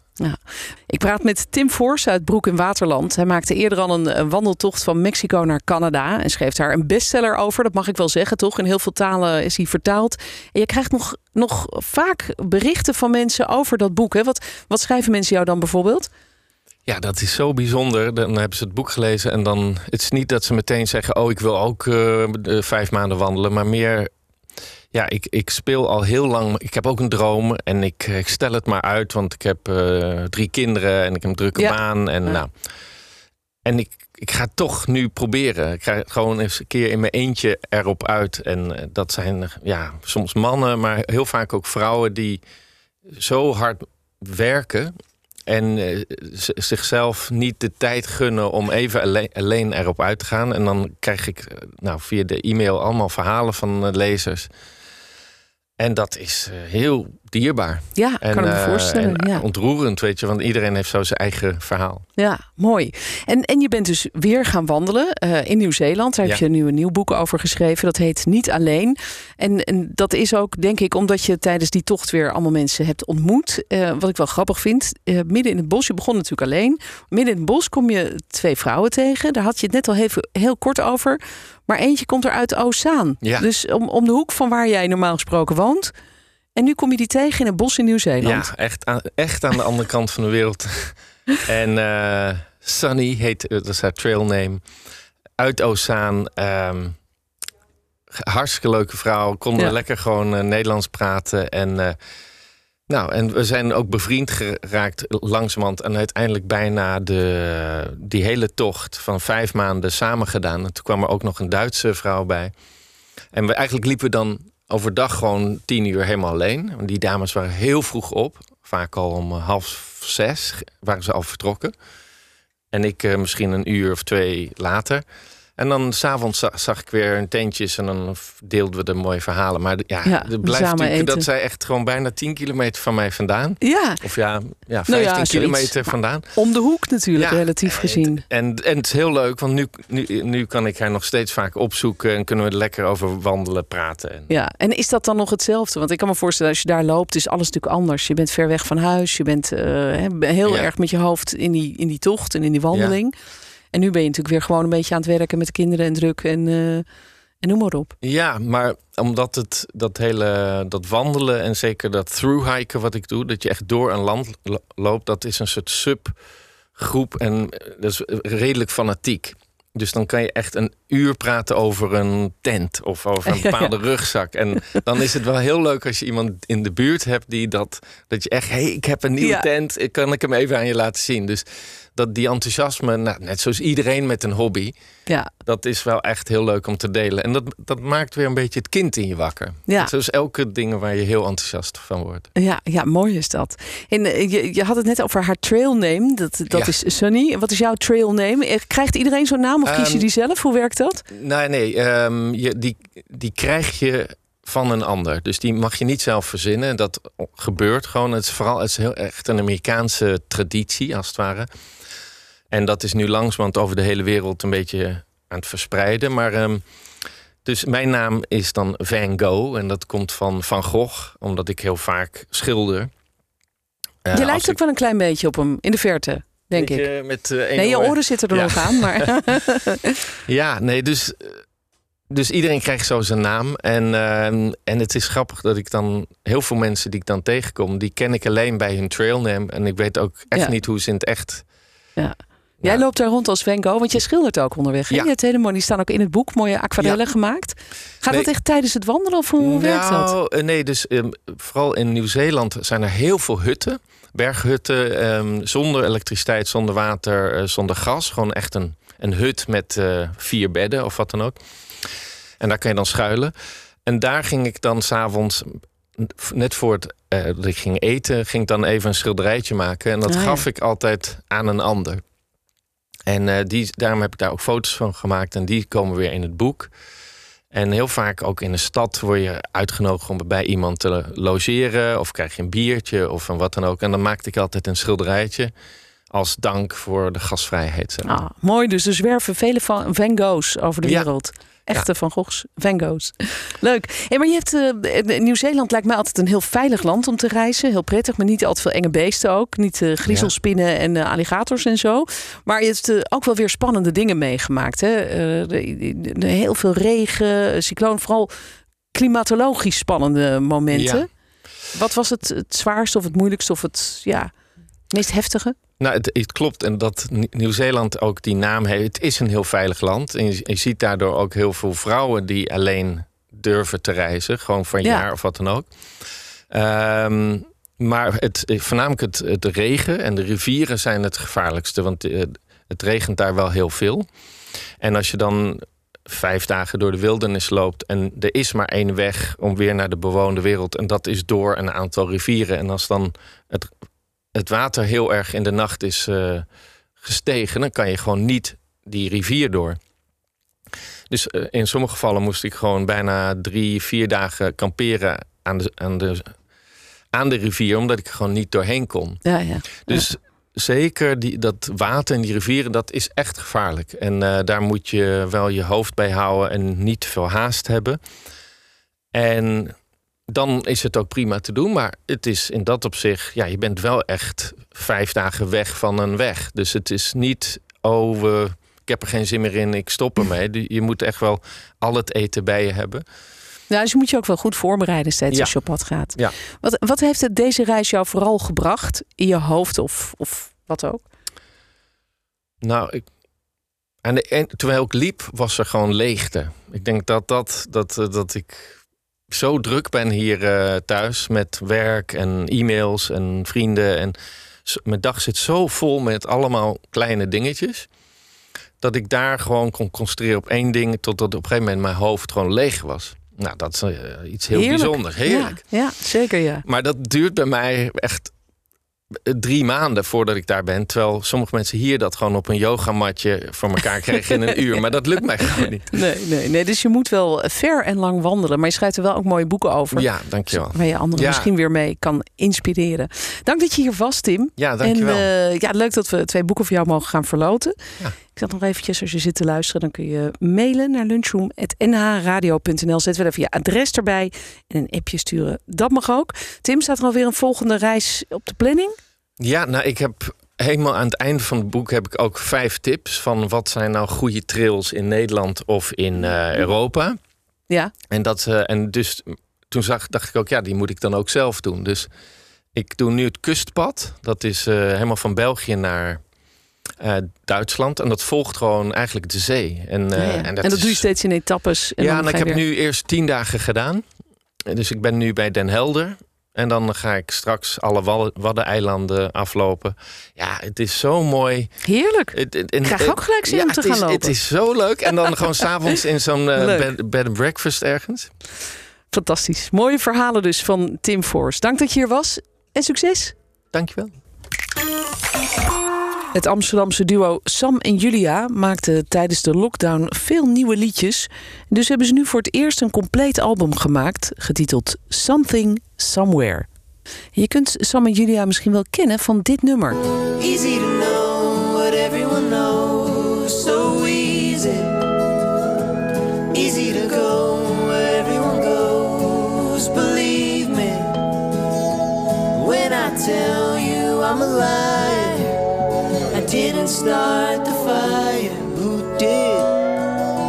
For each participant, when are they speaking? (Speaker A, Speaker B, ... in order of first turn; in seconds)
Speaker A: 0.2-16.1, 58.0-59.4, 62.2-85.9, 86.6-88.5, 130.1-131.3, 133.6-134.0, 134.9-138.2, 144.3-153.2, 153.7-156.8, 157.4-157.9, 173.3-173.7, 179.2-179.5, 189.7-189.9, 192.3-201.0, 224.1-226.9, 227.6-229.9, 242.0-250.1, 270.1-270.4, 288.1-308.3, 308.9-311.1, 311.7-314.3, 314.9-315.6, 324.8-325.1, 359.2-360.1, 383.7-391.1, 414.5-416.6, 425.9-437.8, 438.3-449.0, 470.2-472.6, 481.8-484.4, 486.6-486.9, 489.1-493.4, 496.3-506.7, 507.4-510.0
Speaker B: 16.9-24.1, 24.9-32.5, 33.6-42.4, 43.1-44.9, 45.5-54.5, 55.8-62.0, 83.2-83.5, 88.2-94.6, 95.4-97.0, 98.2-102.0, 102.9-112.5, 113.3-121.7, 122.7-125.0, 125.6-136.4, 137.2-144.3, 150.4-150.7, 152.7-153.0, 158.0-166.2, 166.8-184.8, 185.4-192.3, 196.5-196.8, 199.7-200.1, 201.1-211.5, 212.5-216.6, 217.4-222.9, 224.1-224.6, 226.6-229.1, 230.3-231.4, 232.1-241.4, 249.4-261.4, 262.4-263.3, 263.9-272.0, 273.1-276.7, 277.5-285.5, 286.1-288.2, 290.8-291.1, 300.1-300.3, 310.7-311.1, 315.8-325.7, 326.5-334.1, 334.8-343.7, 344.4-346.5, 347.0-349.8, 351.1-356.4, 357.1-359.2, 359.8-368.0, 369.1-369.8, 370.3-383.1, 392.6-393.1, 394.0-398.8, 399.3-407.9, 408.8-415.6, 416.6-418.3, 419.1-426.0, 429.9-431.5, 434.6-435.3, 449.4-457.2, 458.1-462.1, 462.7-466.2, 467.0-471.1, 472.0-474.1, 474.7-481.8, 482.3-488.3, 493.7-494.2
Speaker C: 510.4-515.0, 516.5-521.2, 522.5-525.6, 526.3-529.8